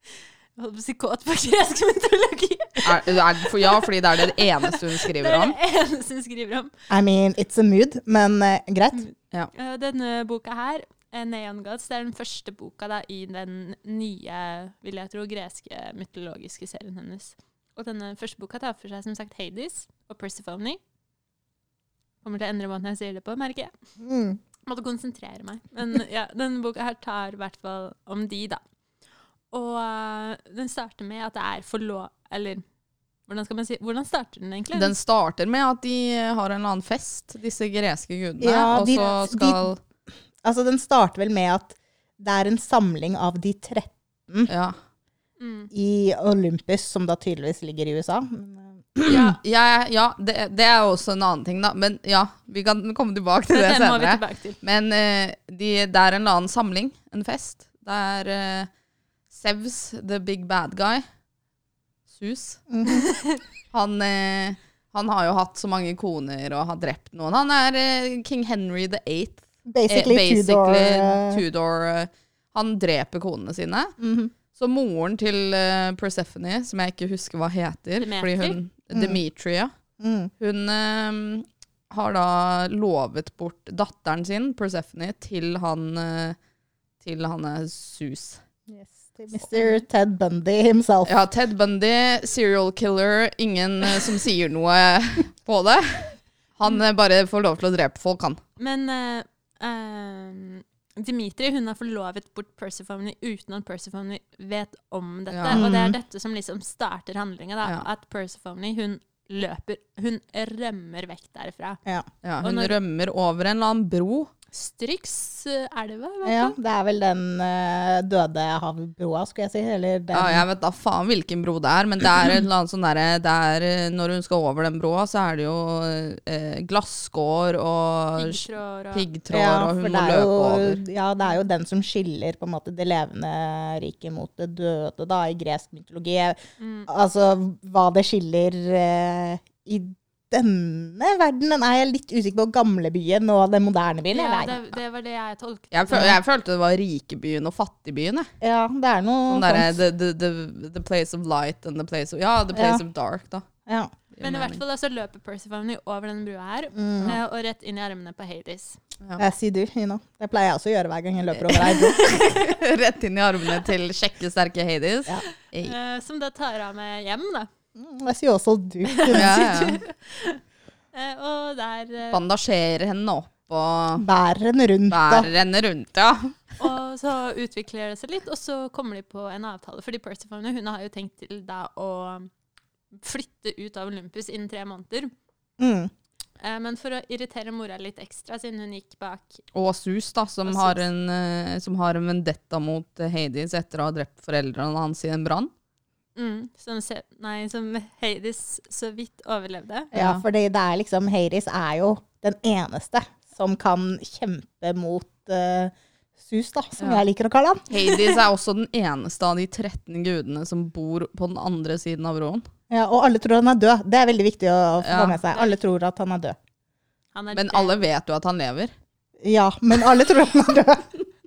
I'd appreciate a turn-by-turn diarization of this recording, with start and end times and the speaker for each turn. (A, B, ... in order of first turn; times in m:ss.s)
0:00.6-0:06.7 A
0:02.8-0:05.6 B
0:06.9-0:09.0 C
0:08.9-0:20.8 A
0:22.2-0:23.7 A
0:24.0-0:24.4 C
0:24.7-0:28.6 A
0:29.5-0:32.6 A
0:33.3-0:35.0 A
0:34.7-0:39.8 B
0:38.4-0:39.6 C
0:38.8-0:39.2 A
0:40.4-0:44.5 C
0:44.5-0:44.8 B
0:45.4-0:45.7 A
0:45.7-0:49.4 C
0:49.1-0:58.7 B
0:53.5-0:54.6 A
0:59.3-1:01.0 B
1:02.1-1:02.6 B
1:02.7-1:03.1 C
1:02.9-1:03.4 A
1:03.7-1:14.0 B
1:09.7-1:11.4 C
1:14.0-1:14.3 C
1:14.5-1:19.7 B
1:18.0-1:18.6 A
1:18.9-1:19.2 C
1:20.0-1:20.3 C
1:20.4-1:26.4 B
1:27.0-1:28.4 B
1:28.7-1:31.2 C
1:31.0-1:38.4 B
1:38.6-1:51.8 A
1:45.3-1:45.6 B
1:45.5-1:46.0 C
1:52.2-1:54.3 B
1:52.4-1:52.8 A
1:54.5-1:56.6 A
1:56.2-2:00.5 C
2:00.1-2:10.8 B
2:08.2-2:09.1 A
2:09.3-2:24.6 C
2:16.6-2:16.9 A
2:24.1-2:26.2 A
2:25.7-2:28.3 B
2:25.9-2:26.2 C
2:28.4-2:29.8 C
2:29.3-2:33.4 B
2:32.5-2:32.8 C
2:33.7-2:33.9 C
2:34.1-2:34.6 B
2:34.2-2:38.8 A
2:36.8-2:37.2 C
2:39.2-2:42.0 C
2:41.3-2:45.8 B
2:41.6-2:42.6 A
2:45.6-2:47.5 A
2:47.8-2:49.4 C
2:48.8-2:50.4 A
2:49.1-2:49.8 B
2:50.9-2:52.2 A
2:52.1-2:54.1 B
2:54.0-2:55.3 C
2:54.9-2:56.3 B
2:56.6-3:02.3 A
3:02.9-3:05.1 A
3:05.6-3:05.9 C
3:06.4-3:09.4 A
3:09.5-3:15.5 B
3:10.5-3:10.8 C
3:16.2-3:19.9 A
3:19.9-3:27.7 C
3:19.9-3:20.2 B
3:26.8-3:27.0 B
3:27.7-3:32.5 B
3:32.7-3:36.4 C
3:34.8-3:35.2 B
3:35.3-3:35.6 A
3:37.2-3:37.8 A
3:37.3-3:38.7 B
3:39.2-3:41.0 C